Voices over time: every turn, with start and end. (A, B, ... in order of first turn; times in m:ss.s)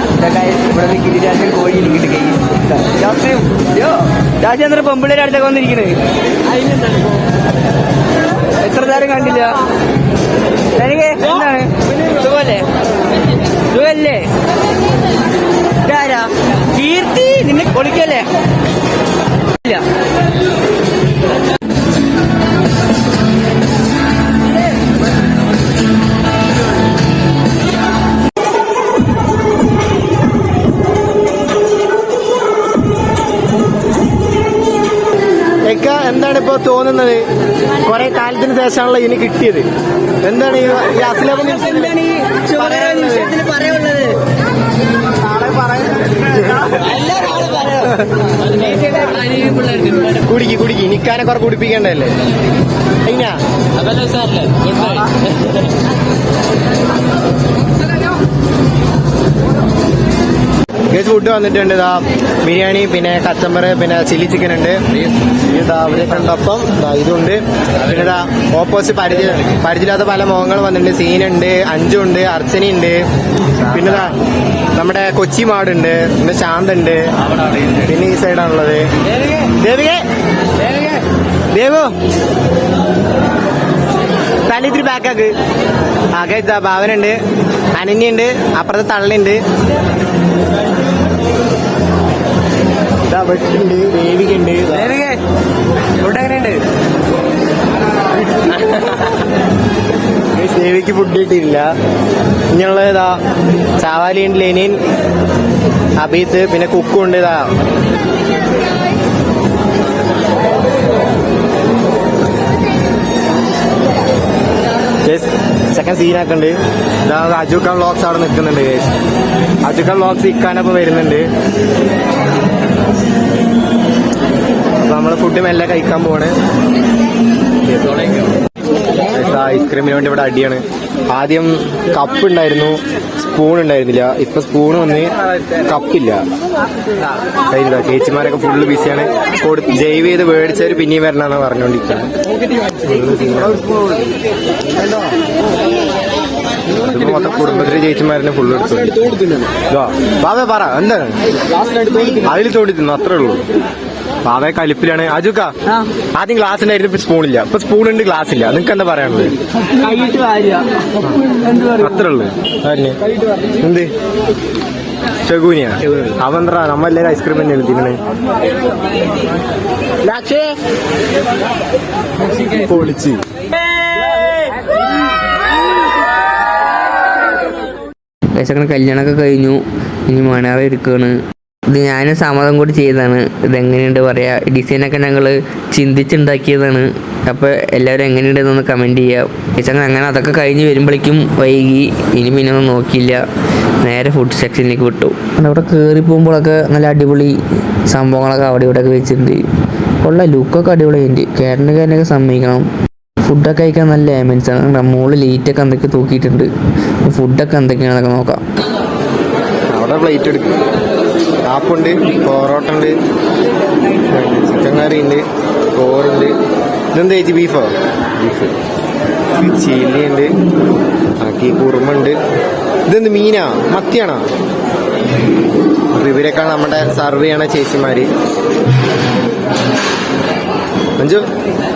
0:00.1-0:06.0 A
0:08.6-0:09.6 A
0:10.8-0:12.7 A
0:13.7-0:14.3 A
0:15.8-0:18.3 A
0:35.6-0:37.2 B
0:37.8-0:39.7 B
0:40.2-0:41.9 B
0:41.5-0:44.2 A
0:46.1-0:46.7 B
0:46.7-0:48.0 A
0:48.5-0:50.2 C
0:50.2-0:52.1 B
0:53.0-0:53.4 B
0:53.8-0:55.5 C
1:00.9-1:04.8 B
1:05.0-1:05.2 C
1:05.4-1:13.0 B
1:13.6-1:14.2 B
1:14.7-1:17.0 B
1:17.7-1:18.8 B
1:19.4-1:20.0 B
1:21.5-1:21.9 B
1:24.5-1:25.3 B
1:26.1-1:27.2 B
1:27.7-1:29.4 B
1:33.1-1:34.9 B
1:36.0-1:36.6 A
1:40.3-1:41.7 B
1:42.5-1:43.2 B
1:43.8-1:44.8 B
1:46.0-1:47.5 B
1:55.0-1:58.9 B
1:59.6-2:01.3 B
2:04.8-2:06.4 B
2:07.7-2:08.0 B
2:07.9-2:08.2 C
2:09.1-2:16.2 B
2:17.5-2:22.1 B
2:22.8-2:23.8 B
2:26.7-2:29.0 B
2:29.7-2:31.1 B
2:32.0-2:33.4 B
2:34.2-2:35.5 B
2:36.1-2:39.4 B
2:39.7-2:40.6 A
2:41.3-2:41.9 A
2:41.8-2:43.0 B
2:43.6-2:43.9 B
2:45.2-2:48.0 B
2:52.5-2:53.2 B
2:58.4-3:01.1 A
3:01.7-3:13.2 A
3:13.8-3:17.4 A
3:17.9-3:19.4 A
3:20.0-3:22.6 A
3:23.2-3:26.5 A
3:27.1-3:28.4 A
3:29.7-3:30.6 B
3:31.4-3:33.0 B
3:34.1-3:36.3 B
3:36.9-3:38.5 B
3:39.4-3:40.3 B
3:41.2-3:42.2 B
3:42.9-3:44.2 B
3:45.9-3:48.1 B
3:51.0-3:51.2 B